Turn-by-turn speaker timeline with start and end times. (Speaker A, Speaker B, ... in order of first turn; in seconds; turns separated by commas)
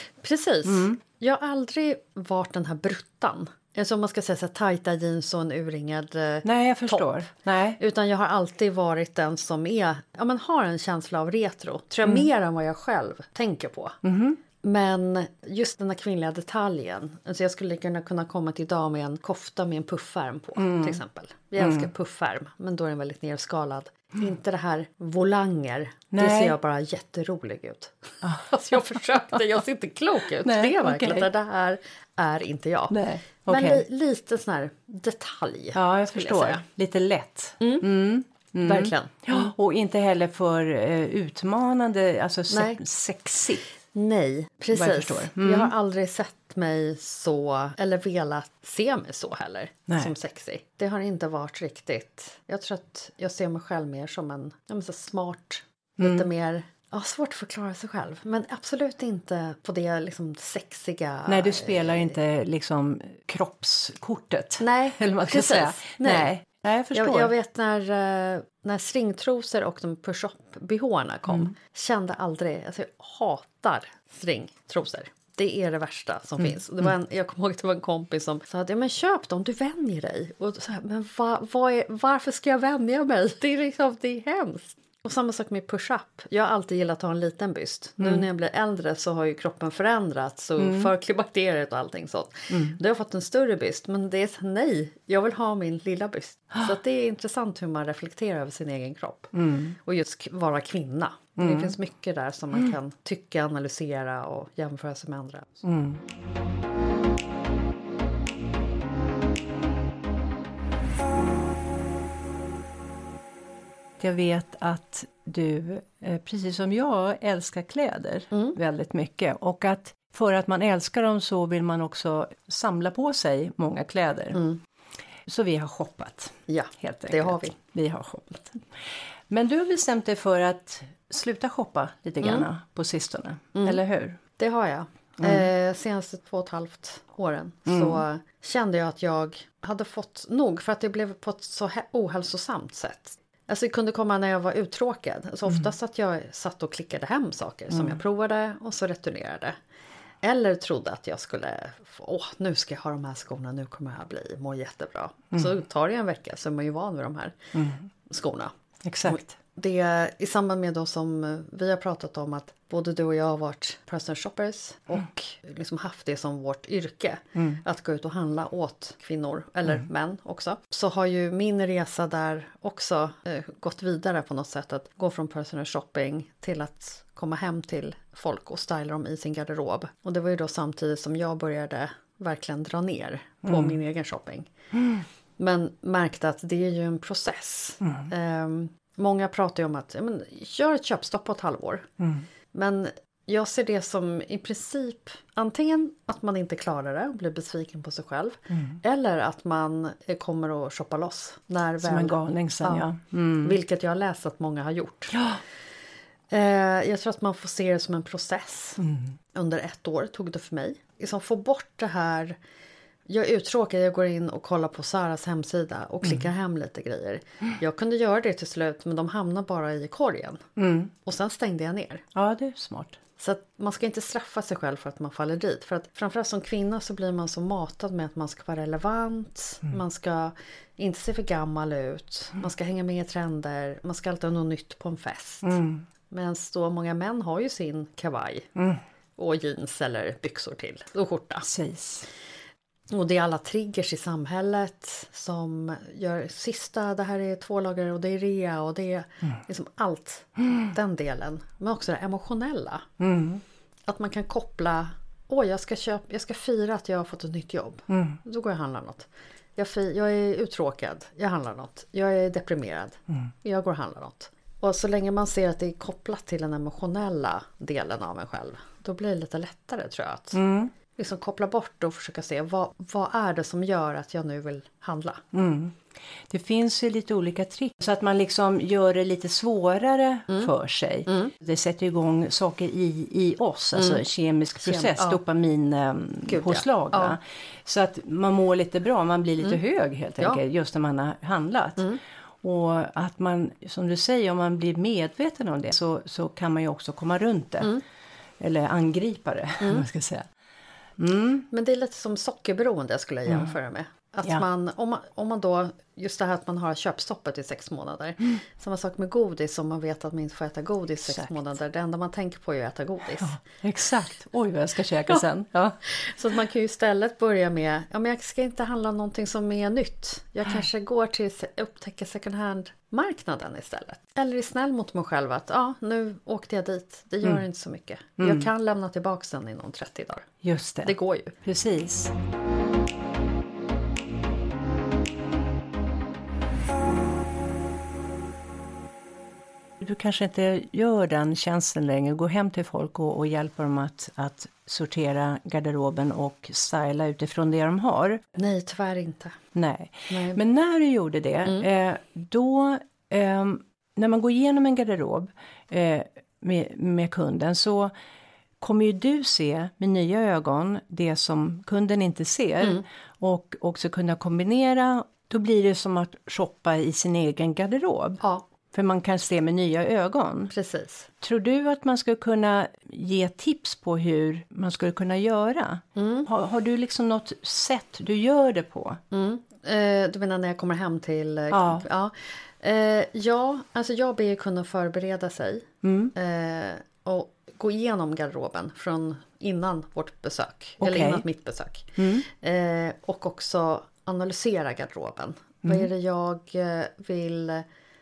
Speaker A: 0.2-7.3, Speaker B: 0.7-1.0, Speaker B: 6.4-7.8, Speaker A: 7.8-14.0, Speaker B: 14.0-14.4, Speaker A: 14.6-36.6, Speaker B: 20.6-21.0, Speaker B: 21.6-21.9, Speaker B: 26.1-26.6, Speaker B: 28.2-28.8, Speaker B: 30.4-31.3, Speaker B: 32.9-33.8, Speaker B: 35.7-43.7, Speaker A: 37.6-37.9, Speaker A: 38.7-39.5, Speaker A: 42.5-42.8, Speaker A: 43.9-62.2, Speaker B: 44.7-45.7, Speaker B: 56.0-56.3, Speaker B: 61.3-67.3, Speaker A: 64.6-66.3, Speaker A: 66.9-105.7, Speaker B: 88.0-88.3, Speaker B: 90.6-90.9, Speaker B: 92.5-92.8, Speaker B: 99.3-99.8, Speaker B: 101.4-101.8, Speaker B: 105.6-106.0, Speaker B: 114.0-124.4, Speaker A: 118.3-118.6, Speaker A: 124.3-124.6, Speaker B: 125.3-134.2, Speaker A: 126.5-127.6, Speaker A: 132.2-132.5, Speaker A: 133.6-133.8, Speaker A: 134.4-149.6, Speaker B: 135.2-135.5, Speaker B: 137.7-138.0, Speaker B: 147.7-148.0, Speaker A: 150.2-157.3, Speaker B: 157.5-157.9, Speaker A: 158.1-158.5, Speaker B: 158.8-159.3, Speaker A: 159.1-184.5, Speaker B: 167.4-167.6, Speaker B: 183.4-183.8, Speaker B: 184.7-185.1, Speaker A: 185.4-191.9, Speaker B: 187.8-188.1, Speaker B: 192.0-192.3, Speaker A: 192.5-202.9, Speaker B: 198.5-198.8, Speaker B: 201.8-203.6, Speaker A: 203.4-205.2, Speaker B: 205.1-205.4, Speaker A: 206.3-208.8, Speaker B: 208.8-209.2, Speaker A: 209.3-212.4, Speaker A: 213.1-220.4, Speaker B: 220.6-220.9, Speaker A: 221.1-222.0, Speaker B: 222.1-223.0, Speaker A: 223.2-235.6, Speaker B: 235.4-235.9, Speaker A: 236.1-238.5, Speaker B: 238.6-238.8, Speaker A: 239.2-241.5, Speaker B: 241.4-242.1, Speaker A: 242.9-252.9, Speaker B: 253.0-253.4, Speaker A: 253.9-270.4, Speaker B: 257.9-258.2, Speaker B: 270.3-270.7, Speaker A: 271.0-275.2, Speaker B: 275.3-297.8, Speaker A: 281.1-281.3, Speaker A: 283.8-284.0, Speaker A: 284.6-285.2, Speaker A: 286.3-287.2, Speaker B: 298.4-300.3, Speaker A: 299.6-299.9, Speaker B: 301.0-301.5, Speaker A: 301.5-313.3, Speaker B: 311.1-311.4, Speaker B: 313.2-315.8, Speaker A: 315.9-330.3, Speaker B: 328.2-328.5, Speaker B: 330.4-332.1, Speaker A: 330.8-331.4, Speaker B: 339.8-348.2, Speaker A: 348.4-349.4, Speaker B: 349.6-357.9, Speaker A: 350.1-350.4, Speaker B: 358.6-368.2, Speaker B: 368.7-370.5, Speaker A: 370.5-371.1, Speaker B: 371.2-379.0, Speaker A: 376.0-376.3, Speaker A: 379.1-397.6, Speaker B: 381.5-381.9, Speaker B: 385.8-386.1, Speaker B: 390.8-391.2, Speaker B: 392.0-392.2